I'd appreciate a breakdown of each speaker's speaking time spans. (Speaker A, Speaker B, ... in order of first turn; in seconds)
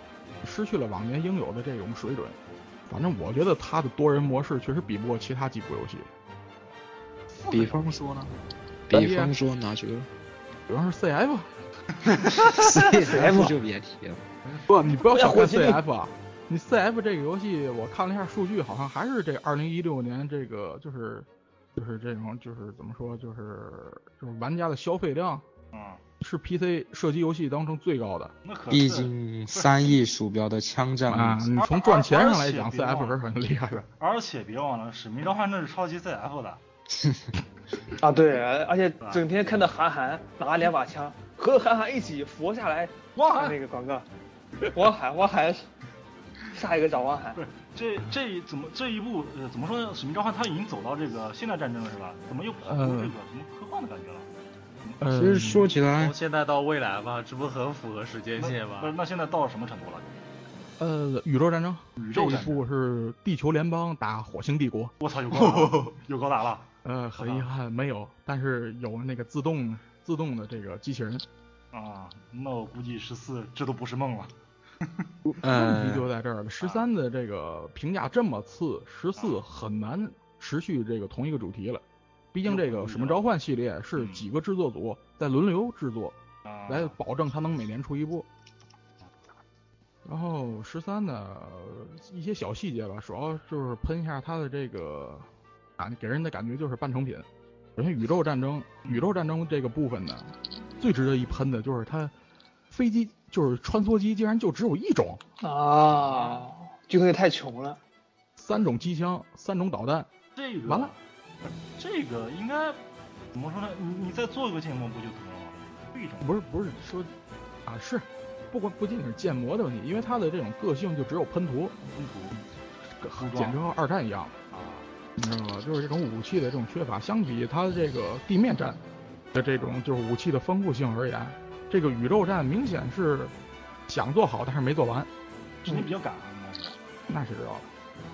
Speaker A: 0.4-2.4, 2.9-6.1, 8.9-9.3, 10.7-11.5, 14.7-25.4, 26.2-28.3, 31.1-33.9, 52.6-53.1, 55.0-55.7, 60.8-65.8, 66.8-71.2, 75.2-86.2, 86.7-88.3, 90.0-95.2, 95.8-102.1, 102.7-105.2, 108.4-110.1, 116.2-117.1, 117.7-121.8, 123.0-124.3, 125.2-128.8, 129.3-133.3, 133.9-135.1, 137.1-137.7
Speaker B: 7.5-8.3, 8.9-10.1, 12.2-14.2, 28.7-31.5, 37.0-37.2, 55.1-56.1, 75.4-76.0
Speaker C: 12.4-13.5, 14.9-15.8, 38.0-44.0, 44.6-45.7, 46.5-47.4, 105.4-107.8
Speaker D: 25.7-26.0, 28.4-30.0, 31.6-33.2, 33.9-36.6, 43.2-43.5, 47.3-54.3, 58.4-60.1, 62.0-62.6, 65.0-67.5, 71.7-75.1, 76.6-76.8, 79.2-79.4, 82.4-83.2, 84.0-84.2, 86.4-86.9, 106.0-106.4, 110.3-111.0, 111.8-112.8, 113.3-116.3, 121.9-122.4, 123.2-123.6, 124.5-124.9, 135.6-136.7
Speaker E: 55.9-58.9